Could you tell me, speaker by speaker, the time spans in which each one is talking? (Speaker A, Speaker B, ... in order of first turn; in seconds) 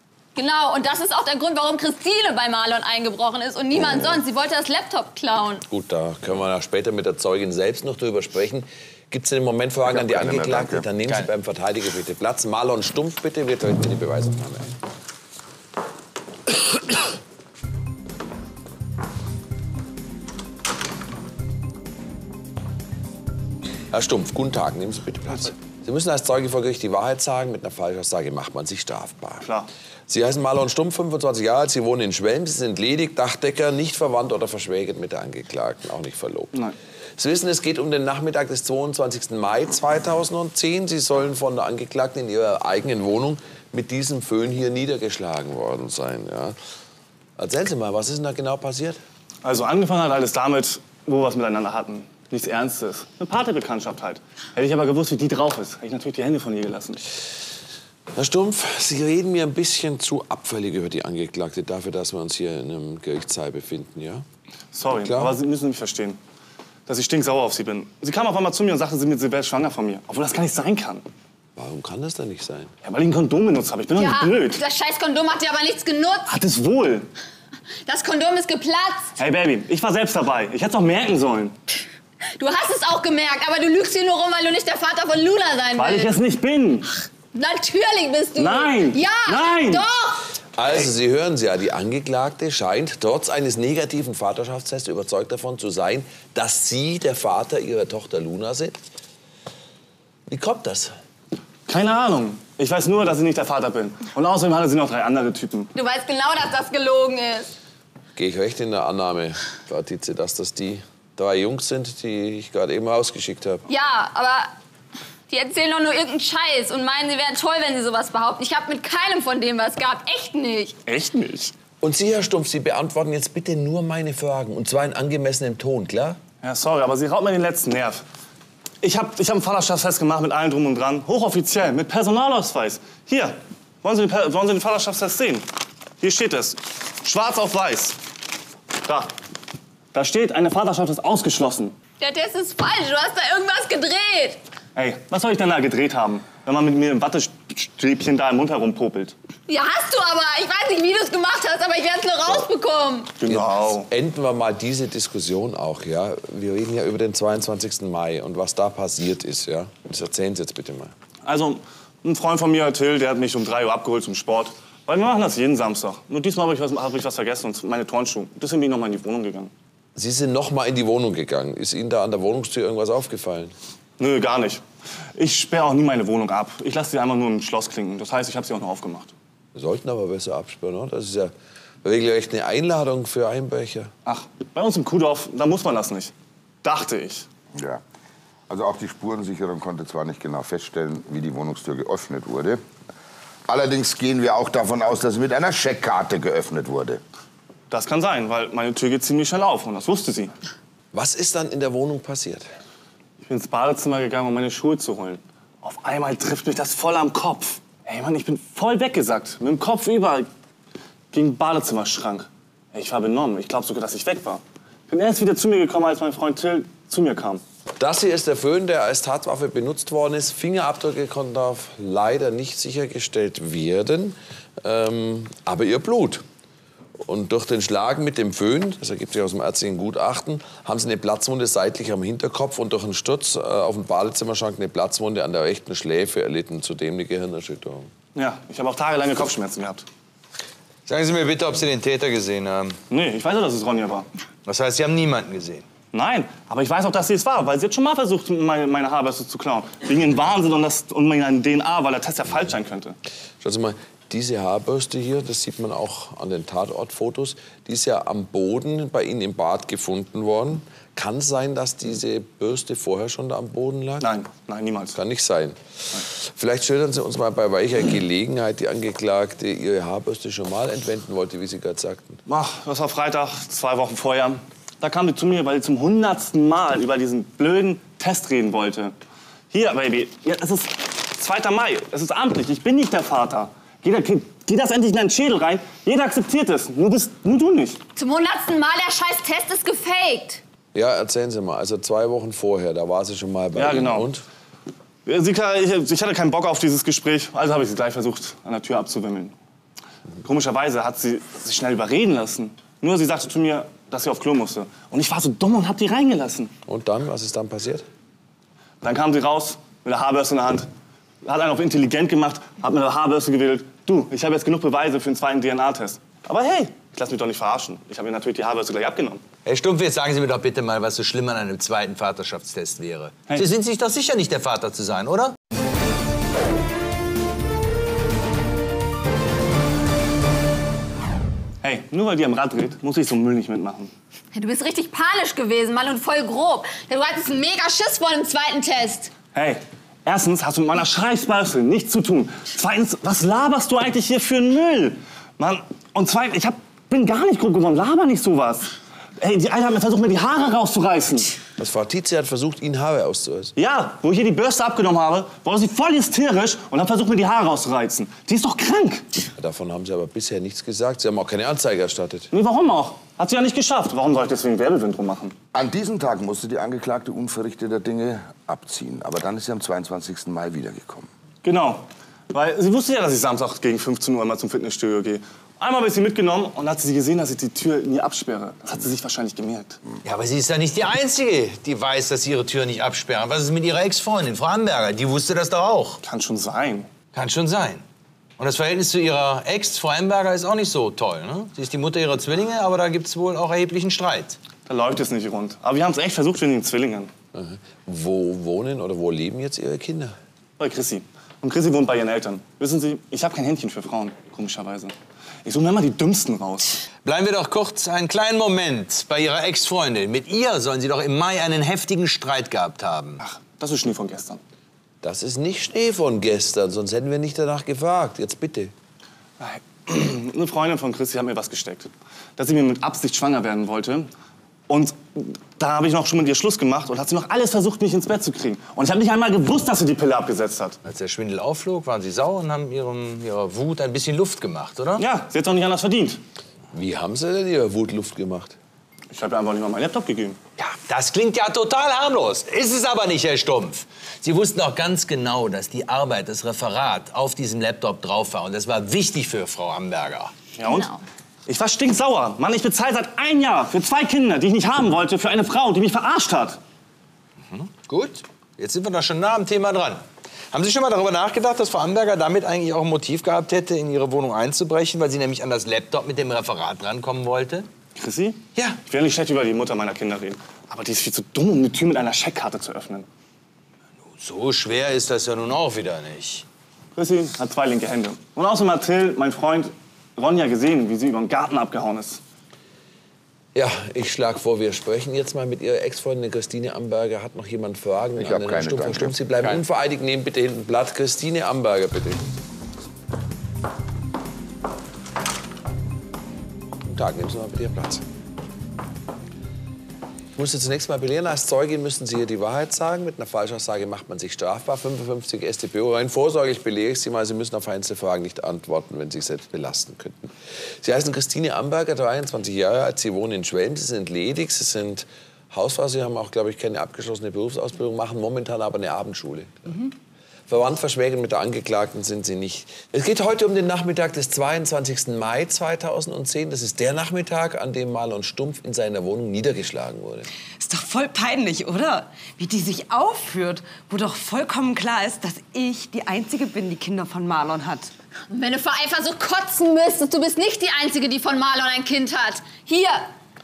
Speaker A: 0.3-5.6, 73.9-76.3, 77.8-79.1, 82.4-86.1, 87.3-90.2, 105.7-107.5, 113.7-114.5, 115.3-120.8, 142.0-144.4, 149.5-153.1, 287.9-290.4, 334.3-339.1, 450.6-451.0, 538.3-543.1
Speaker B: 5.7-14.7, 23.9-29.5, 30.1-36.5, 37.2-46.5, 47.4-49.0, 58.1-64.2, 64.9-65.4, 71.5-72.7, 90.5-98.8, 100.3-100.9, 108.2-113.6, 121.8-126.2, 153.3-160.9, 169.9-173.5, 179.5-183.9, 200.9-202.4, 217.8-226.2, 227.0-237.9, 253.4-264.1, 264.9-272.2, 290.7-294.2, 306.6-307.9, 351.6-353.5, 359.4-362.3, 397.3-400.1, 415.0-418.7, 436.7-438.6, 483.5-492.2, 496.8-498.1, 500.3-519.9, 520.5-530.3
Speaker C: 9.9-10.8, 187.5-187.8, 188.5-192.6, 193.5-197.0, 365.5-371.1, 488.2-489.6
Speaker D: 29.4-29.7, 49.4-57.0, 64.7-66.2, 66.9-71.0, 72.8-74.6, 76.3-77.1, 79.2-81.5, 85.8-86.9, 88.3-89.8, 101.7-105.7, 120.8-121.5, 126.4-128.0, 128.8-135.4, 136.0-138.0, 138.8-139.1, 139.9-141.7, 144.8-149.1, 153.2-153.9, 161.2-169.5, 174.0-174.6, 175.2-179.1, 184.0-187.2, 197.7-200.3, 203.2-210.3, 211.1-217.4, 238.1-239.8, 242.9-244.1, 245.9-253.0, 264.0-265.0, 272.3-278.9, 279.5-287.8, 293.6-294.1, 295.1-299.3, 300.2-306.5, 308.8-310.7, 311.2-319.2, 331.6-333.9, 339.3-351.3, 353.6-359.1, 362.3-365.3, 371.4-379.8, 386.0-386.9, 394.7-397.1, 400.6-404.9, 405.4-406.8, 413.2-414.4, 419.4-424.1, 424.7-430.8, 435.0-436.2, 439.1-440.4, 450.6-450.9, 451.5-456.6, 467.9-473.1, 476.9-482.2
Speaker E: 240.9-242.8, 244.4-245.6, 319.4-325.3, 380.0-386.0, 387.1-387.8, 388.4-394.4, 407.0-413.2, 430.8-435.1, 440.9-450.3, 457.5-467.7, 474.1-476.4
Speaker F: 530.6-537.9